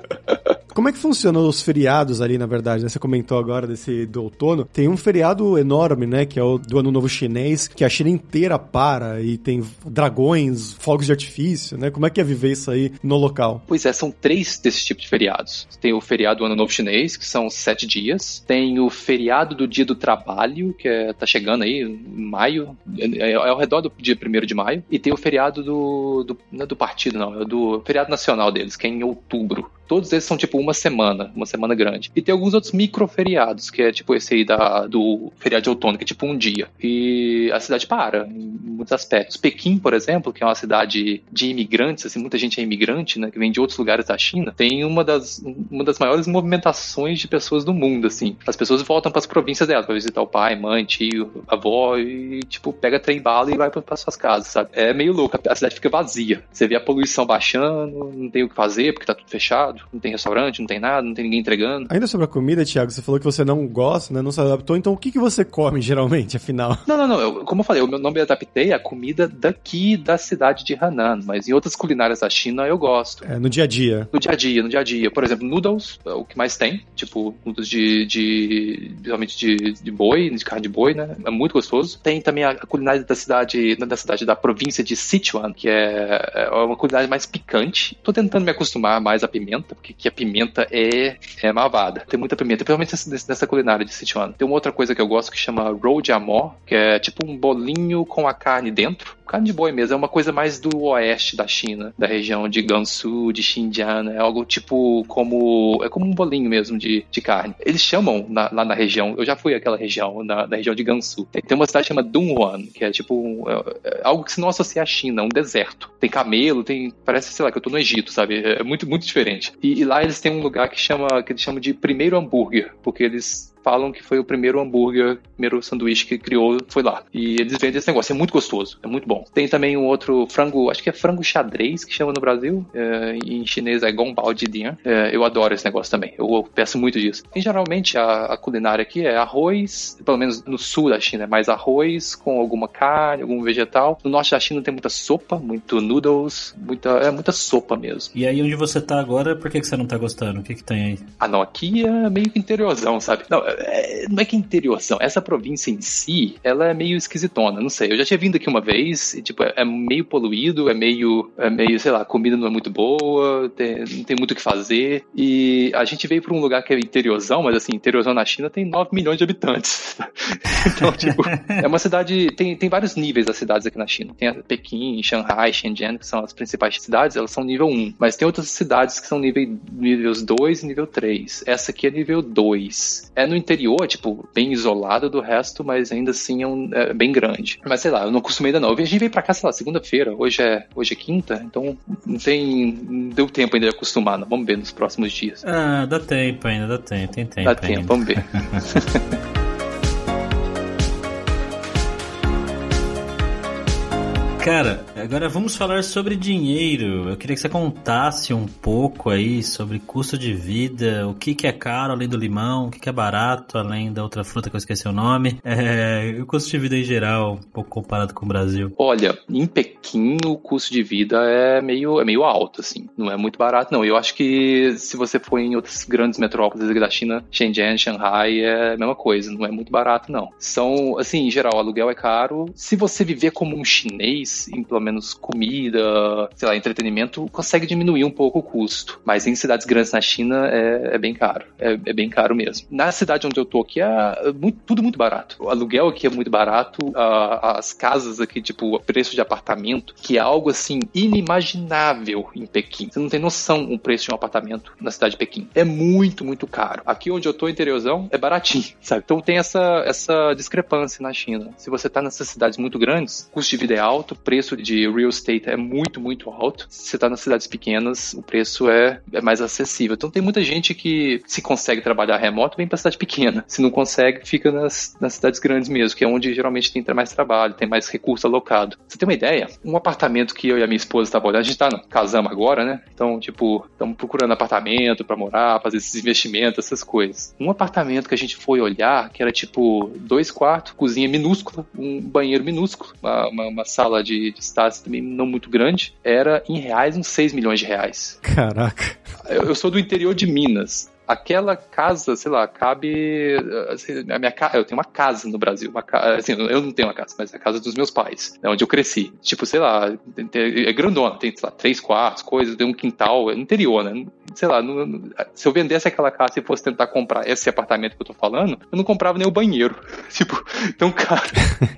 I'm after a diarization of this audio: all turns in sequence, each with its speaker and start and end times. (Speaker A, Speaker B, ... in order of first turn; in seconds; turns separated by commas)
Speaker A: 0.7-13.6, Speaker B: 13.7-61.9, Speaker A: 61.9-66.8, Speaker B: 66.9-73.2, Speaker A: 73.2-74.1, Speaker B: 74.1-148.1, Speaker C: 148.1-151.1, Speaker B: 151.2-195.4, Speaker C: 195.4-198.6, Speaker B: 197.4-199.0, Speaker C: 204.4-218.7, Speaker B: 218.8-298.2, Speaker A: 298.2-299.0, Speaker B: 299.2-321.5